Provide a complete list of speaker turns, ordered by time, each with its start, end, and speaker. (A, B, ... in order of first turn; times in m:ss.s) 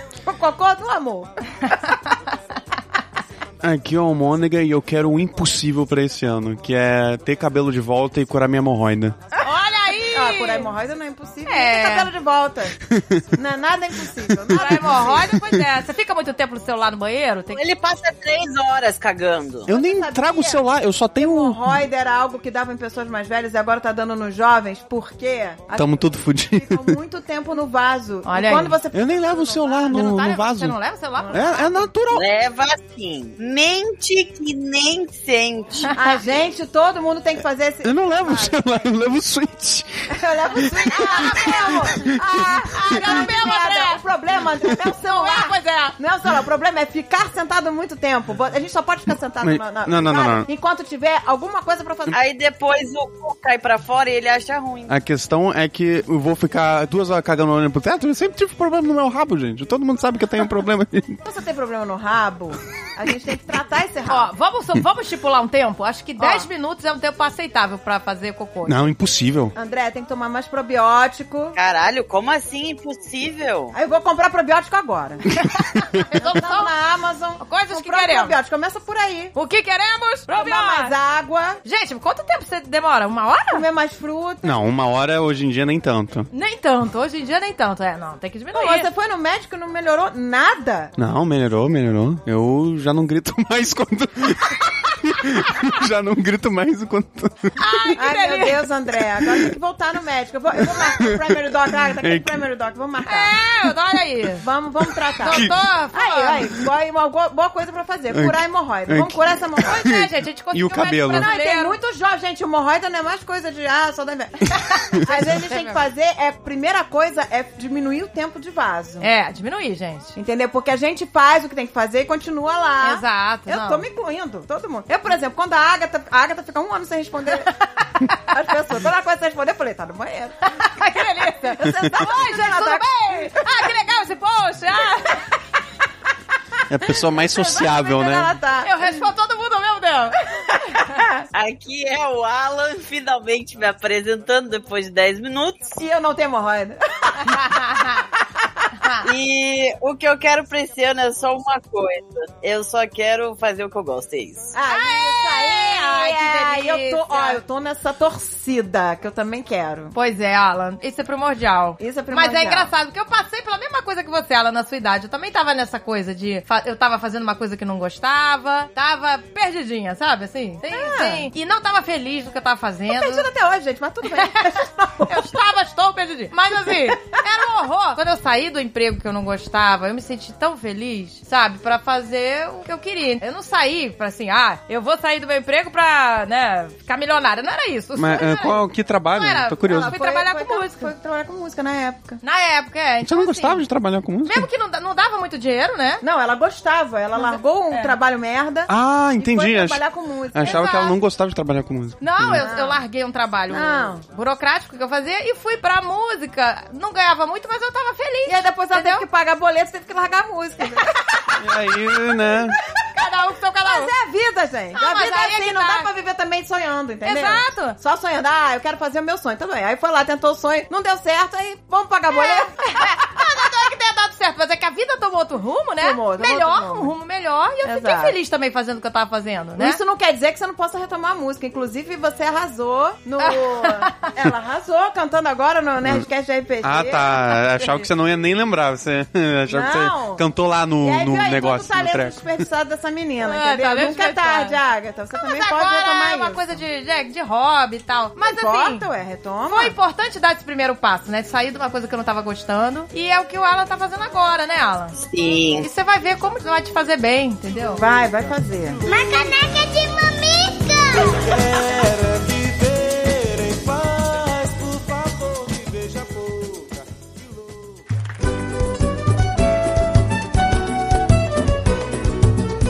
0:00.2-0:02.1 A
0:01.7-0:02.0 B
0:03.6-0:09.2 C
0:09.4-0:10.7 B
0:10.0-0:12.8 A
0:11.4-0:12.1 B
0:12.9-0:13.2 C
0:13.3-0:15.4 A
0:14.4-0:14.8 C
0:14.5-0:17.6 B
0:17.5-0:19.7 D
0:19.7-0:21.8 C
0:19.7-0:30.1 A
0:25.8-0:27.0 C
0:28.2-0:28.8 B
0:28.9-0:30.8 C
0:29.8-0:31.7 B
0:31.2-0:31.6 A
0:31.3-0:32.2 C
0:32.1-0:36.0 D
0:35.9-0:36.2 B
0:35.9-0:38.9 A
0:37.8-0:42.6 C
0:40.1-0:52.2 A
0:40.9-0:41.9 B
0:42.8-0:44.0 B
0:45.0-0:46.0 B
0:49.4-0:50.5 C
0:52.1-0:54.9 D
0:54.9-1:01.2 C
1:01.2-1:04.3 A
1:04.1-1:08.9 B
1:06.2-1:06.5 A
1:08.6-1:09.5 C
1:09.5-1:11.6 A
1:11.6-1:13.7 D
1:13.7-1:15.2 A
1:15.4-1:16.7 B
1:16.1-1:19.3 A
1:17.4-1:18.3 B
1:19.3-1:21.0 B
1:20.3-1:21.6 A
1:21.6-1:23.6 B
1:23.5-1:24.5 A
1:24.4-1:26.3 C
1:26.3-1:28.9 B
1:28.5-1:30.9 A
1:31.0-1:37.6 C
1:37.6-1:38.6 B
1:37.9-1:43.4 A
1:40.9-1:41.3 C
1:42.0-1:42.3 C
1:43.0-1:44.4 B
1:44.4-1:49.8 A
1:45.2-1:45.6 C
1:45.2-1:46.5 B
1:48.1-1:51.3 C
1:49.6-1:51.8 B
1:51.1-1:59.1 A
1:55.0-1:55.8 B
1:59.0-2:00.2 B
2:00.2-2:07.5 A
2:02.8-2:03.8 B
2:08.1-2:10.5 A
2:10.4-2:15.2 B
2:11.4-2:13.7 A
2:16.7-2:18.3 C
2:17.0-2:19.1 A
2:18.6-2:21.0 B
2:20.6-2:21.2 A
2:21.3-2:25.8 D
2:25.8-2:28.7 A
2:27.2-2:28.0 B
2:28.8-2:29.1 B
2:29.0-2:34.5 D
2:34.5-2:39.9 A
2:34.6-2:37.4 B
2:39.9-2:53.3 B
2:41.8-2:42.7 A
2:50.7-2:51.3 A
2:52.9-2:55.3 A
2:54.1-3:10.9 B
2:56.6-2:57.2 A
3:08.0-3:09.9 C
3:09.6-3:12.2 A
3:12.2-3:13.6 B
3:13.0-3:14.5 C
3:14.2-3:16.0 B
3:16.0-3:20.9 A
3:17.2-3:18.0 B
3:18.7-3:19.8 C
3:20.3-3:22.4 C
3:20.4-3:20.9 B
3:22.0-3:29.0 B
3:22.3-3:22.8 A
3:23.5-3:24.0 A
3:28.2-3:33.1 A
3:31.4-3:32.6 C
3:32.9-3:33.9 B
3:33.6-3:43.4 A
3:34.8-3:35.9 B
3:37.0-3:37.8 B
3:42.1-3:49.8 B
3:45.8-3:46.9 A
3:47.6-3:48.2 A
3:49.6-3:57.3 A
3:53.2-3:54.1 B
3:56.6-4:02.2 C
3:57.6-3:57.8 B
3:59.5-4:00.2 A
4:00.8-4:06.6 A
4:03.2-4:04.6 B
4:05.1-4:08.8 B
4:08.2-4:09.7 A
4:09.5-4:15.0 B
4:15.0-4:15.7 D
4:15.6-4:17.8 B
4:17.7-4:18.8 A
4:18.8-4:21.4 E
4:21.0-4:27.8 F